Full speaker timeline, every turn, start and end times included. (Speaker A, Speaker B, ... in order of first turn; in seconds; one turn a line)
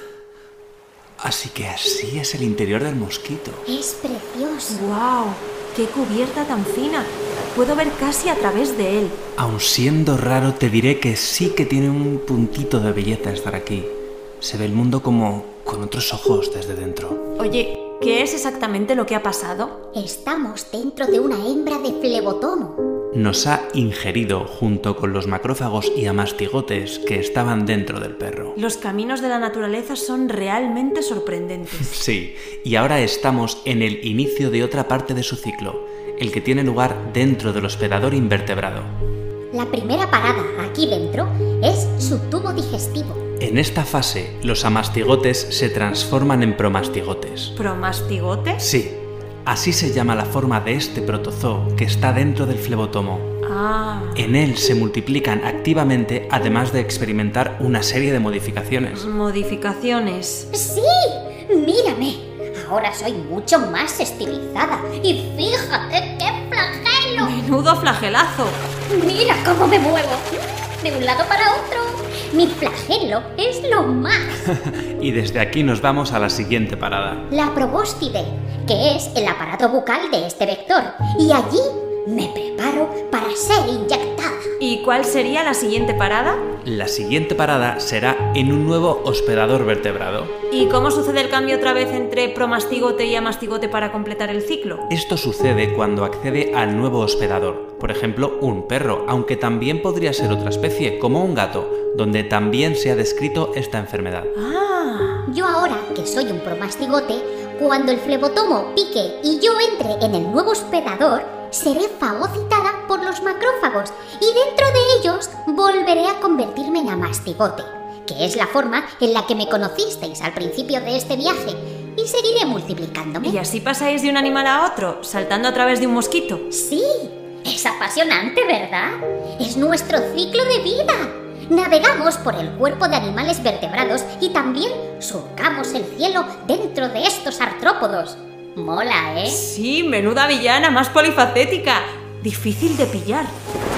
Speaker A: 1.2-3.6
Speaker B: 3.7-4.8
Speaker C: 4.7-9.2
Speaker A: 9.4-17.2
Speaker C: 17.4-19.8
Speaker B: 19.9-22.8
Speaker A: 23.1-28.6
Speaker C: 28.6-31.9
Speaker A: 31.8-38.9
Speaker B: 39.5-43.2
Speaker A: 43.4-47.5
Speaker C: 47.6-48.6
Speaker A: 48.6-53.3
Speaker C: 53.5-54.2
Speaker A: 54.1-59.1
Speaker C: 58.9-60.5
Speaker B: 60.5-67.3
Speaker C: 67.2-68.6
Speaker B: 68.9-74.4
Speaker A: 74.7-77.3
Speaker B: 77.3-84.5
Speaker C: 84.6-86.4
Speaker A: 86.7-90.3
Speaker C: 90.5-94.8
Speaker A: 94.9-104.3
Speaker C: 104.4-105.2
Speaker B: 105.3-123.4
Speaker C: 123.2-126.5
Speaker B: 126.5-139.4
Speaker C: 139.3-143.3